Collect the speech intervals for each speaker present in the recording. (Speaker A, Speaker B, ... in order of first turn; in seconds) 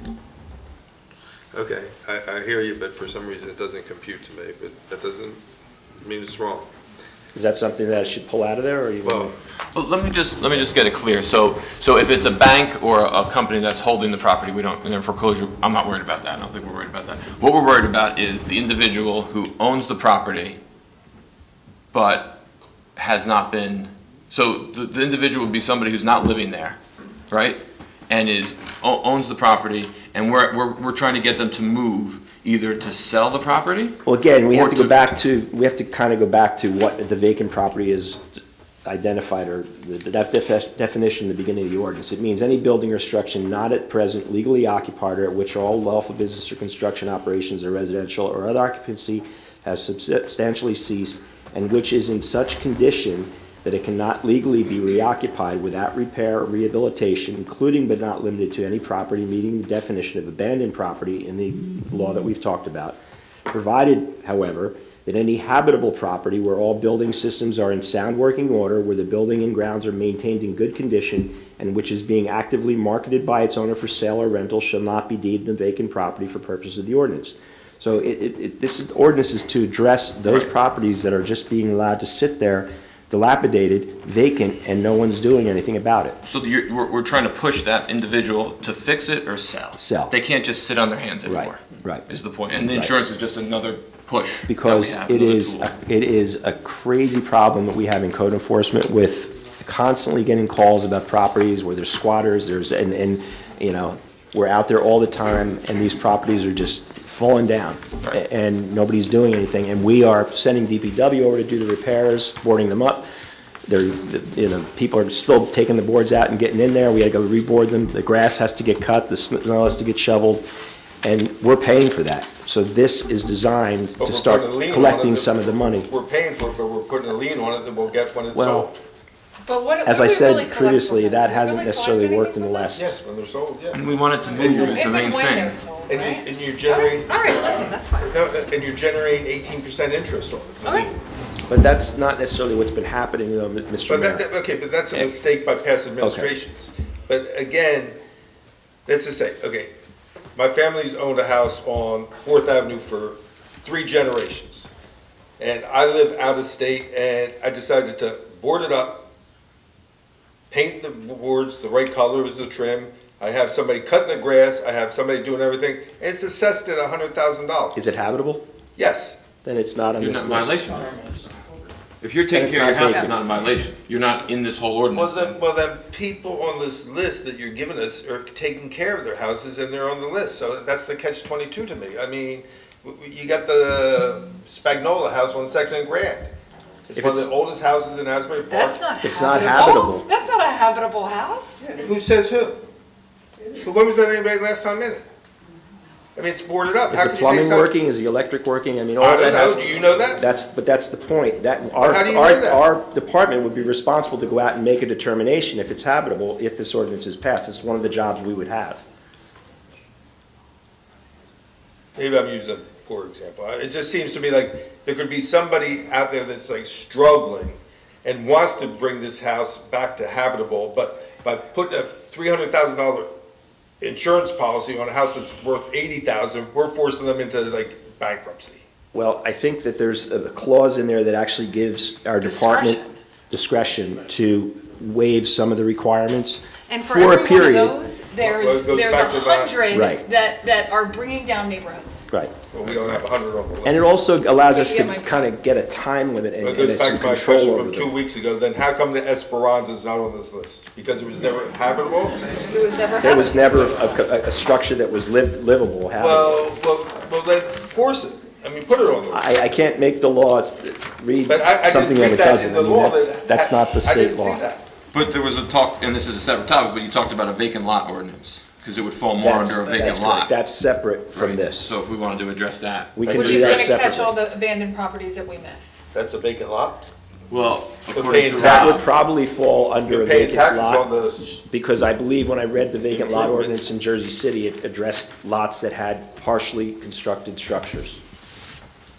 Speaker A: 1.5-5.4, 6.0-6.7, 9.0-9.3, 124.0-128.8, 132.7-134.8, 135.9-137.5, 138.1-140.9, 143.9-148.0, 148.8-149.7, 150.3-154.7, 155.4-159.0, 160.5-167.9, 168.8-169.2, 174.9-186.3, 186.9-188.8, 191.6-192.6, 193.5-195.1, 196.1-197.7, 199.0-200.2, 201.8-202.6, 211.9-223.1, 223.8-228.6, 238.2-239.6, 242.5-243.9, 246.4-252.3, 255.9-259.2, 261.2-264.6, 275.9-276.8, 277.9-278.9, 279.9-281.4, 282.9-283.7
Speaker B: 7.3-9.3, 34.0-38.2, 38.8-63.0, 63.5-86.2, 89.8-90.1, 91.2-92.0, 94.5-113.1, 113.7-120.5, 121.0-125.9, 128.3-128.7, 129.8-133.0, 141.5-144.3, 146.0-146.3, 167.7-168.4, 169.4-170.7, 172.3-173.2, 186.9-187.3, 189.0-190.1, 196.9-208.8, 228.9-237.8, 239.7-240.0, 243.6-247.9, 253.0-256.4, 259.1-264.4, 269.1-271.7, 272.9-274.1, 278.4-280.9, 281.5-288.0
Speaker C: 9.7-20.6, 21.9-22.4, 22.9-26.8, 27.3-34.0, 34.5-35.1, 86.2-95.7, 133.7-135.6, 170.0-171.1, 172.0-175.3, 242.6-243.0, 264.9-270.3, 271.1-273.7, 277.3-278.9
Speaker D: 129.4-132.8, 134.2-138.4, 140.6-140.9, 188.5-191.6, 232.2-232.9, 236.7-242.1, 244.5-245.2, 252.4-254.0, 273.1-275.8